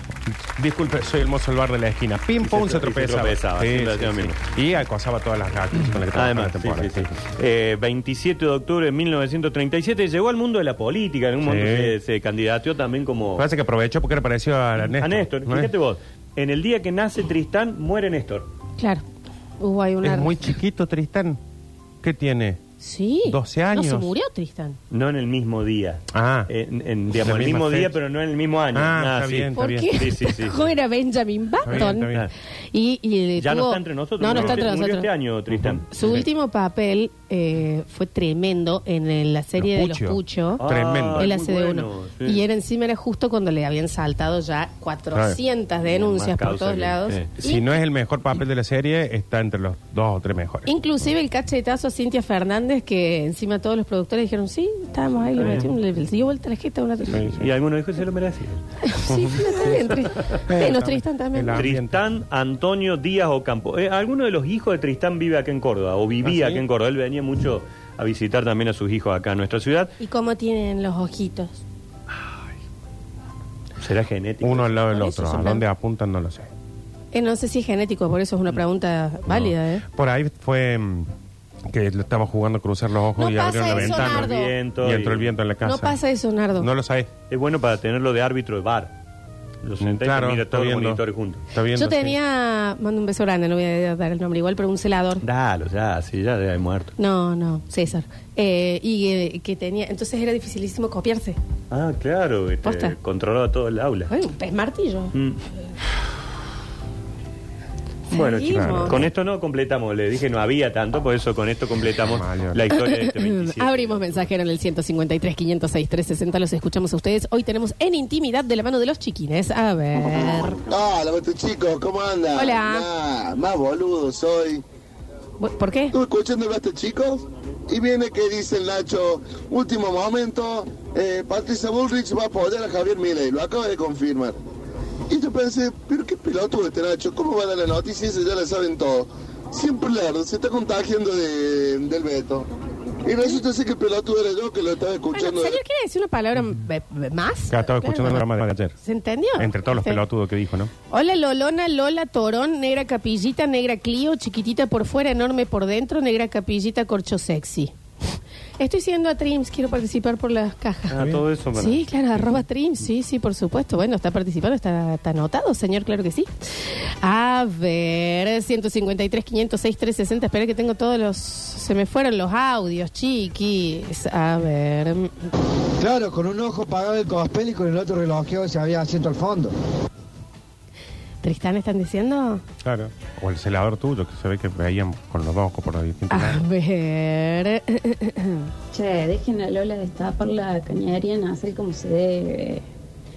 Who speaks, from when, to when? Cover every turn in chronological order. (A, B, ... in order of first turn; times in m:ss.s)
0:00.3-0:07.1 A
0:02.4-0:04.4 B
0:06.1-0:13.5 B
0:11.4-0:12.0 A
0:13.4-0:15.7 A
0:15.0-0:18.5 B
0:18.8-0:19.0 C
0:19.6-0:20.4 C
0:20.0-0:21.4 A
0:22.0-0:22.6 A
0:22.8-0:24.8 C
0:23.2-0:24.1 A
0:24.9-0:30.6 B
0:26.1-0:26.5 A
0:27.1-0:28.0 A
0:28.7-0:30.0 A
0:29.6-0:32.1 C
0:31.6-0:32.3 A
0:31.7-0:32.3 B
0:32.7-0:35.1 C
0:33.4-0:35.9 B
0:34.3-0:34.7 A
0:35.6-0:36.2 A
0:35.9-0:40.7 C
0:39.6-0:41.3 A
0:40.6-0:42.4 B
0:41.2-0:47.7 C
0:45.1-0:45.4 A
0:45.8-0:47.3 B
0:47.4-0:50.7 A
0:50.7-0:57.3 C
0:55.4-0:55.7 B
0:55.4-0:55.7 A
0:57.1-0:57.5 A
0:57.4-0:58.6 B
0:58.8-1:01.6 C
0:59.1-0:59.8 A
1:00.5-1:02.0 A
1:01.5-1:09.9 B
1:06.2-1:06.6 A
1:10.0-1:11.6 C
1:13.8-1:14.7 B
1:14.4-1:16.5 A
1:14.9-1:15.6 C
1:17.1-1:19.8 C
1:19.3-1:21.1 A
1:21.7-1:26.0 A
1:23.2-1:24.5 C
1:23.7-1:25.3 B
1:25.6-1:26.7 C
1:26.6-1:27.1 A
1:27.3-1:28.9 B
1:29.6-1:31.4 B
1:29.8-1:32.2 A
1:31.8-1:35.2 C
1:35.2-1:36.9 B
1:37.0-1:41.4 C
1:41.7-1:44.1 B
1:42.6-1:43.0 C
1:44.1-1:45.1 C
1:45.1-1:45.4 B
1:48.1-1:49.0 C
1:48.1-1:54.3 B
1:48.5-1:49.1 A
1:52.0-1:52.7 A
1:52.7-2:00.6 C
2:00.7-2:04.6 D
2:02.4-2:02.9 C
2:05.4-2:06.0 C
2:05.9-2:14.4 D
2:15.1-2:22.5 D
2:23.0-2:25.6 D
2:25.1-2:30.0 C
2:27.5-2:28.8 A
2:29.4-2:30.7 A
2:30.9-2:37.7 C
2:38.6-2:41.0 C
2:40.9-2:42.4 B
2:41.6-2:55.3 C
2:55.8-2:59.5 E
3:01.2-3:02.4 C
3:02.6-3:06.4 A
3:06.1-3:08.5 C
3:08.7-3:12.7 F